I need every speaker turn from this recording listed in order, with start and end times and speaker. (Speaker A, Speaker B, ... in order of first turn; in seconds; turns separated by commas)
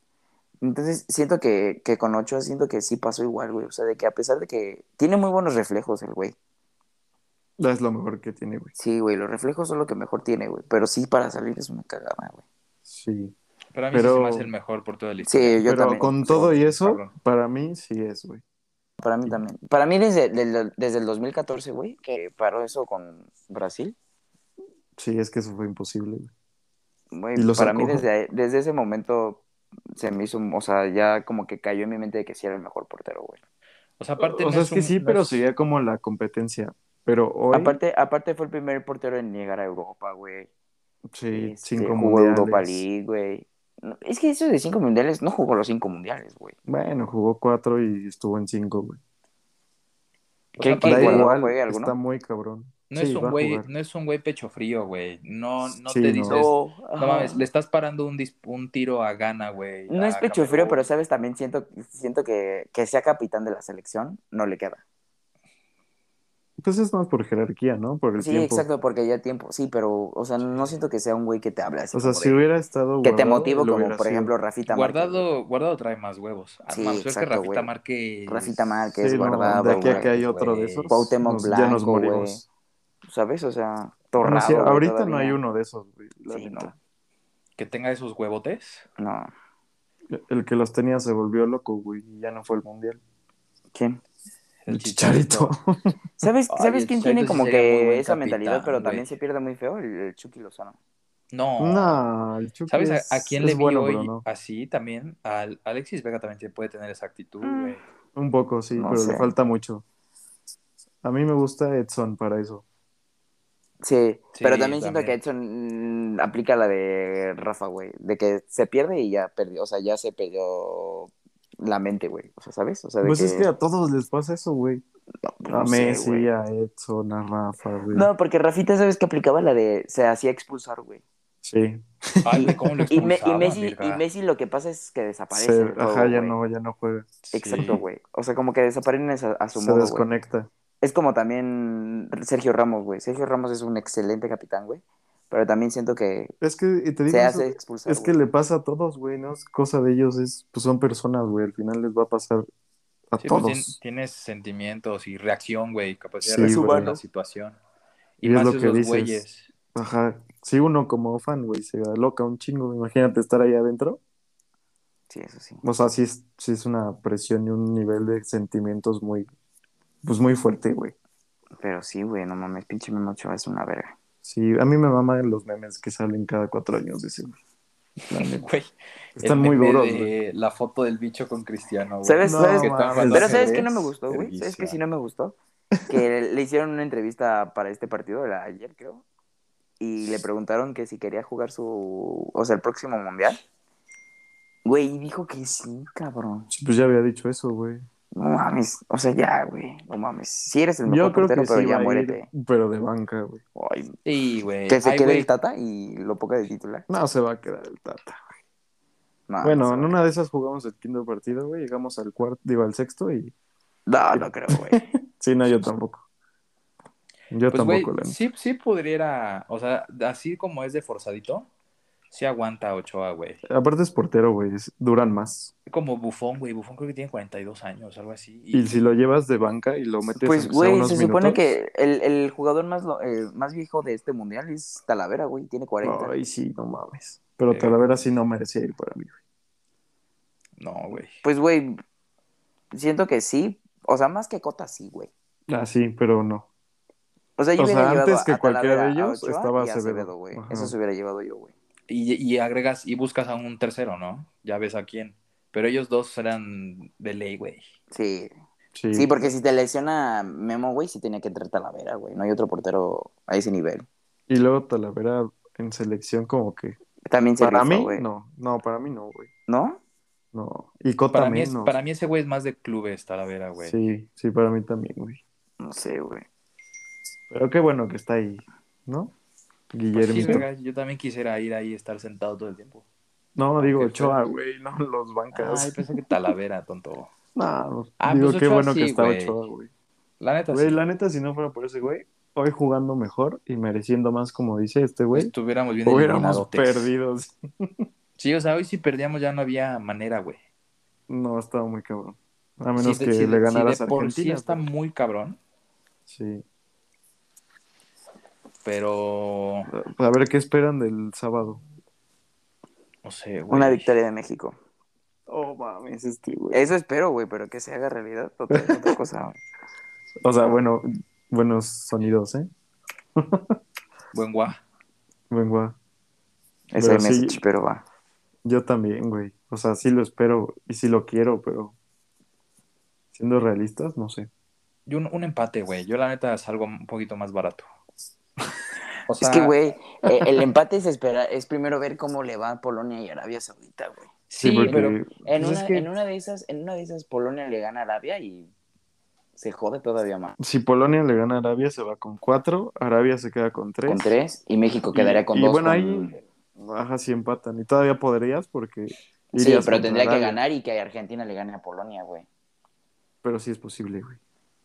Speaker A: 0.6-6.3, Speaker B: 7.6-8.7, Speaker A: 8.8-12.4, Speaker B: 12.8-13.3, Speaker C: 13.7-17.1, Speaker B: 13.9-14.5, Speaker A: 15.2-16.5, Speaker B: 15.7-18.4, Speaker A: 19.0-23.9, Speaker B: 24.9-26.3, Speaker A: 27.1-29.4, Speaker B: 27.3-28.1, Speaker A: 30.0-33.4, Speaker C: 34.0-35.4, Speaker B: 34.2-37.8, Speaker A: 37.5-40.5, Speaker B: 41.1-42.8, Speaker A: 41.3-46.5, Speaker B: 46.6-49.0, Speaker C: 50.6-51.3, Speaker A: 50.6-51.9, Speaker B: 50.8-53.6, Speaker C: 52.9-60.9, Speaker B: 55.6-56.5, Speaker A: 56.3-57.4, Speaker A: 59.9-64.8, Speaker B: 66.6-68.7, Speaker A: 68.2-72.4, Speaker B: 71.9-74.3, Speaker A: 73.0-75.2, Speaker C: 74.7-78.6, Speaker A: 76.7-77.7, Speaker A: 78.3-80.1, Speaker B: 79.0-82.5, Speaker C: 79.6-81.1, Speaker A: 80.9-82.4, Speaker A: 83.0-85.4, Speaker B: 84.2-86.8, Speaker A: 86.3-86.7, Speaker C: 87.6-88.9, Speaker A: 89.0-89.3, Speaker B: 90.1-93.0, Speaker A: 93.7-94.0, Speaker C: 94.6-95.5, Speaker B: 94.7-96.0, Speaker A: 96.2-100.8, Speaker C: 96.5-99.1, Speaker C: 101.3-102.0, Speaker B: 101.6-104.2, Speaker C: 102.7-107.8, Speaker A: 107.4-107.8, Speaker B: 108.1-109.8, Speaker A: 108.7-109.3, Speaker B: 111.0-112.6, Speaker A: 113.8-123.5, Speaker C: 114.3-115.2, Speaker B: 123.0-124.8, Speaker A: 125.2-126.3, Speaker B: 125.5-128.1, Speaker A: 127.9-131.0, Speaker B: 131.4-133.1, Speaker C: 132.2-134.0, Speaker A: 132.3-136.3, Speaker B: 135.3-137.8, Speaker C: 137.3-137.8, Speaker A: 137.3-140.1, Speaker B: 139.6-140.5, Speaker A: 140.8-146.3, Speaker B: 146.4-152.5, Speaker A: 147.1-148.2, Speaker B: 153.1-153.8, Speaker C: 153.2-157.6, Speaker B: 156.2-156.9, Speaker A: 156.3-157.0, Speaker C: 158.2-159.5, Speaker B: 158.2-164.0, Speaker A: 165.1-165.6, Speaker B: 165.6-169.3, Speaker B: 170.0-170.9, Speaker A: 171.6-173.9, Speaker B: 174.2-177.4, Speaker B: 178.1-178.4, Speaker C: 178.1-184.8, Speaker B: 179.2-180.1, Speaker A: 182.0-185.3, Speaker B: 182.2-183.6, Speaker A: 185.9-189.0, Speaker A: 189.8-193.4, Speaker A: 194.6-196.5, Speaker B: 196.5-197.8, Speaker A: 198.1-202.3, Speaker B: 200.8-203.4, Speaker A: 203.6-203.9, Speaker C: 204.0-205.3, Speaker A: 204.7-206.8, Speaker B: 206.9-208.3, Speaker A: 209.3-209.9, Speaker B: 209.4-213.3, Speaker A: 213.9-214.8, Speaker B: 214.1-216.0, Speaker B: 217.3-218.2, Speaker C: 217.5-221.5, Speaker C: 222.1-223.4, Speaker B: 223.5-225.5, Speaker C: 225.7-228.7, Speaker B: 228.5-231.5, Speaker A: 230.2-236.1, Speaker B: 235.8-239.2, Speaker C: 237.5-237.8, Speaker C: 240.6-241.2, Speaker A: 241.2-241.8, Speaker A: 242.7-245.1, Speaker B: 245.5-246.5, Speaker A: 247.4-251.5, Speaker B: 247.6-250.7, Speaker C: 251.9-257.6, Speaker A: 257.9-258.3, Speaker B: 258.7-259.1, Speaker A: 258.9-263.9, Speaker B: 264.3-266.7, Speaker A: 267.1-268.1, Speaker B: 267.4-269.3, Speaker A: 269.5-269.8, Speaker B: 270.3-271.8, Speaker C: 271.1-273.8, Speaker B: 273.6-275.2, Speaker A: 275.6-276.3, Speaker B: 277.3-279.1, Speaker B: 279.7-280.4, Speaker C: 279.9-282.8, Speaker B: 283.4-285.9, Speaker C: 283.6-284.2, Speaker C: 285.3-287.1, Speaker B: 287.3-289.7, Speaker C: 288.0-289.4, Speaker C: 290.2-290.8, Speaker B: 290.5-295.3, Speaker C: 295.1-296.9, Speaker B: 295.8-297.9, Speaker C: 298.2-300.4, Speaker B: 301.1-304.6, Speaker C: 302.8-305.4, Speaker B: 306.1-306.4, Speaker C: 308.6-309.7, Speaker B: 309.7-311.6, Speaker C: 313.0-313.9, Speaker A: 313.5-314.6, Speaker B: 315.3-316.6, Speaker A: 316.5-319.4, Speaker B: 318.5-318.9, Speaker B: 320.2-322.5, Speaker B: 323.1-323.6, Speaker C: 324.1-324.6, Speaker B: 325.3-325.8, Speaker A: 326.7-327.8, Speaker B: 326.8-327.4, Speaker B: 328.4-331.7, Speaker B: 333.1-334.3, Speaker C: 334.9-337.6, Speaker C: 339.1-339.5, Speaker A: 339.2-344.1, Speaker C: 344.3-345.9, Speaker B: 344.4-345.1, Speaker A: 344.7-348.5, Speaker A: 349.4-350.4, Speaker B: 350.4-354.1, Speaker A: 353.9-356.2, Speaker B: 354.9-360.4, Speaker A: 359.3-362.3, Speaker B: 363.2-364.2